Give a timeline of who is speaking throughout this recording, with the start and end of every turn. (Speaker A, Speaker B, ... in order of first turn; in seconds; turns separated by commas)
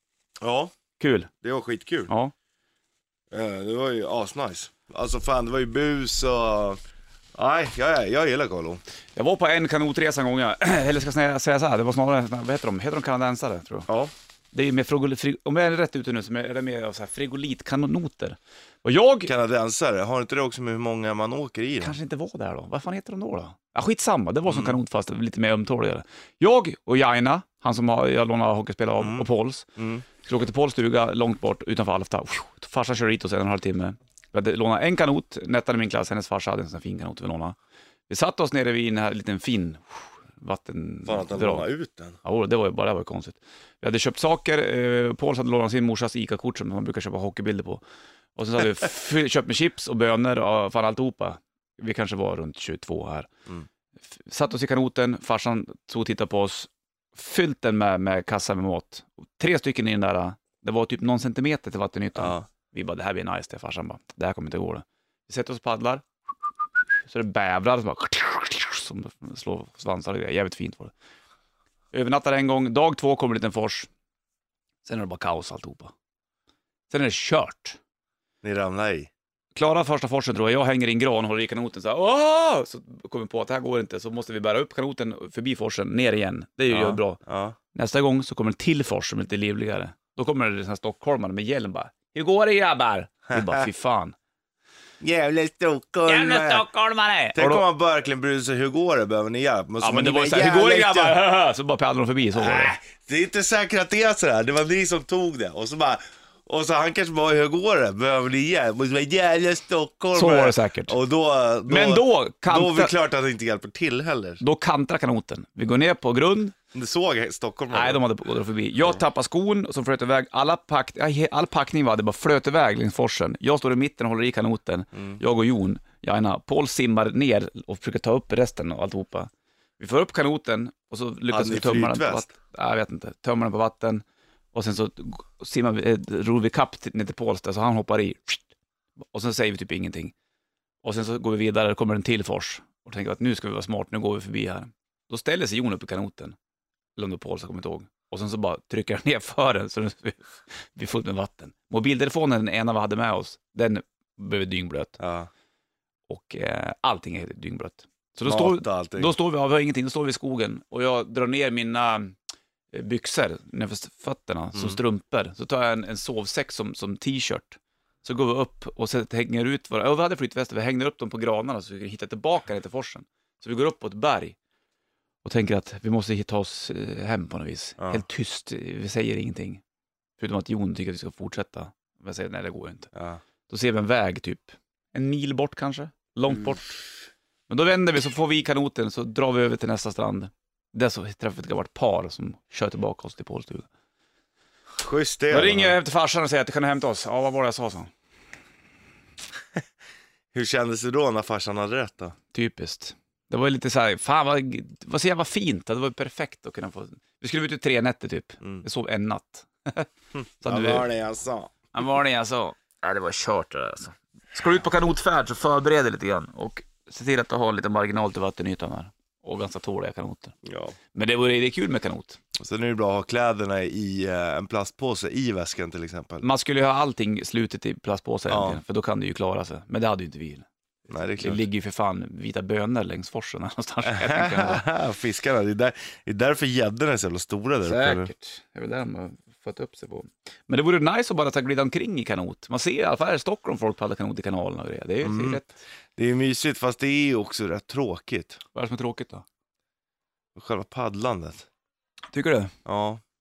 Speaker A: 0.4-0.7, Speaker B: 1.0-1.3, Speaker A: 1.4-2.1, Speaker B: 2.1-2.3, Speaker A: 3.3-6.8, Speaker A: 7.3-8.8, Speaker B: 9.2-13.9, Speaker B: 14.5-19.3, Speaker A: 19.3-22.0, Speaker B: 21.8-29.7, Speaker A: 24.5-24.8, Speaker A: 29.0-30.1, Speaker B: 30.2-37.6, Speaker B: 38.1-41.7, Speaker A: 41.1-42.2, Speaker B: 42.2-47.8, Speaker B: 48.4-53.3, Speaker B: 54.1-66.0, Speaker A: 62.2-62.5, Speaker B: 67.1-70.9, Speaker B: 71.9-73.9, Speaker B: 74.8-75.9, Speaker B: 76.9-77.8, Speaker A: 78.4-79.1, Speaker B: 79.5-87.2, Speaker A: 86.7-87.6, Speaker B: 87.7-94.1, Speaker A: 93.3-93.7, Speaker A: 95.0-96.7, Speaker B: 96.1-97.6, Speaker A: 97.3-101.2, Speaker B: 99.8-102.8, Speaker A: 102.3-114.4, Speaker B: 110.1-111.0, Speaker B: 111.7-112.9, Speaker B: 114.4-116.5, Speaker A: 116.7-118.0, Speaker B: 117.7-138.4, Speaker A: 125.0-125.2, Speaker A: 131.3-132.3, Speaker B: 139.1-140.1, Speaker B: 140.8-146.3, Speaker B: 147.0-154.9, Speaker A: 155.0-155.3, Speaker B: 156.1-162.1, Speaker A: 158.3-159.1, Speaker B: 162.7-174.4, Speaker A: 164.6-164.8, Speaker B: 175.2-179.6, Speaker B: 180.2-182.9, Speaker A: 182.9-183.2, Speaker B: 183.5-186.7, Speaker B: 187.5-193.7, Speaker A: 194.8-195.8, Speaker B: 195.3-197.9, Speaker A: 200.3-202.2, Speaker B: 202.3-209.9, Speaker A: 210.2-211.6, Speaker B: 210.4-210.9, Speaker B: 211.7-220.4, Speaker A: 220.5-220.8, Speaker B: 220.9-222.2, Speaker A: 222.4-226.2, Speaker B: 226.2-230.4, Speaker A: 228.3-228.6, Speaker A: 230.9-231.4, Speaker B: 231.2-234.6, Speaker A: 233.9-238.1, Speaker B: 237.6-245.6, Speaker A: 245.0-248.4, Speaker B: 248.5-249.2, Speaker A: 250.3-251.5, Speaker B: 252.1-252.5, Speaker A: 252.7-253.0